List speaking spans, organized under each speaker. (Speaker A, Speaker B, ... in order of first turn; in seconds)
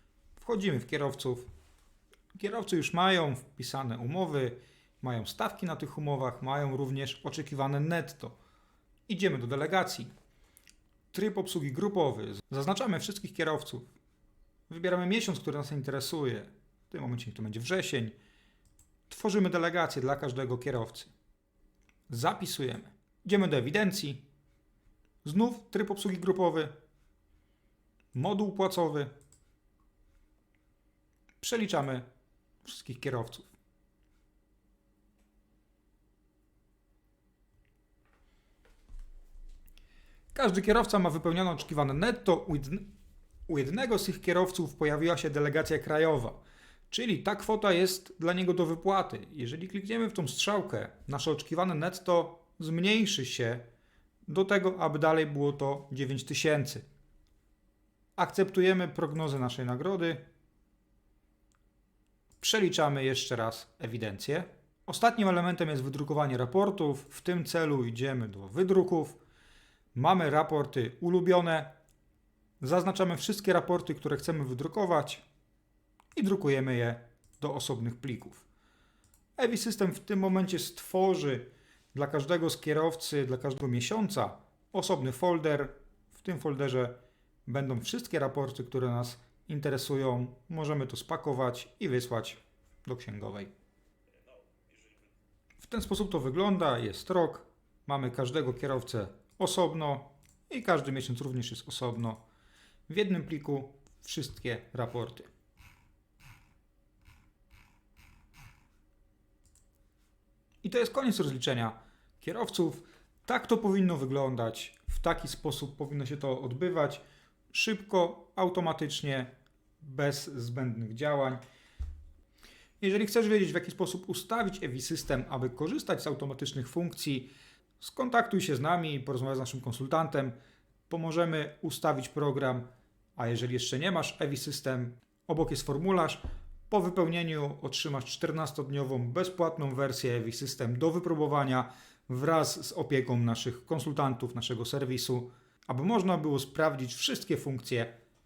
Speaker A: 0.4-1.5, 2.3-8.4, 9.1-10.1, 11.1-13.9, 14.7-18.1, 19.1-21.1, 22.1-24.2, 25.2-26.7, 28.1-29.1, 31.4-32.1, 32.6-33.5, 40.3-42.9, 43.5-46.4, 46.9-53.6, 54.3-56.8, 58.2-60.2, 62.4-69.2, 69.9-71.7, 72.6-75.2, 76.2-78.5, 79.4-93.5, 95.6-102.2, 102.9-105.3, 110.6-121.4, 122.8-127.3, 127.8-130.3, 130.9-132.7, 133.2-147.9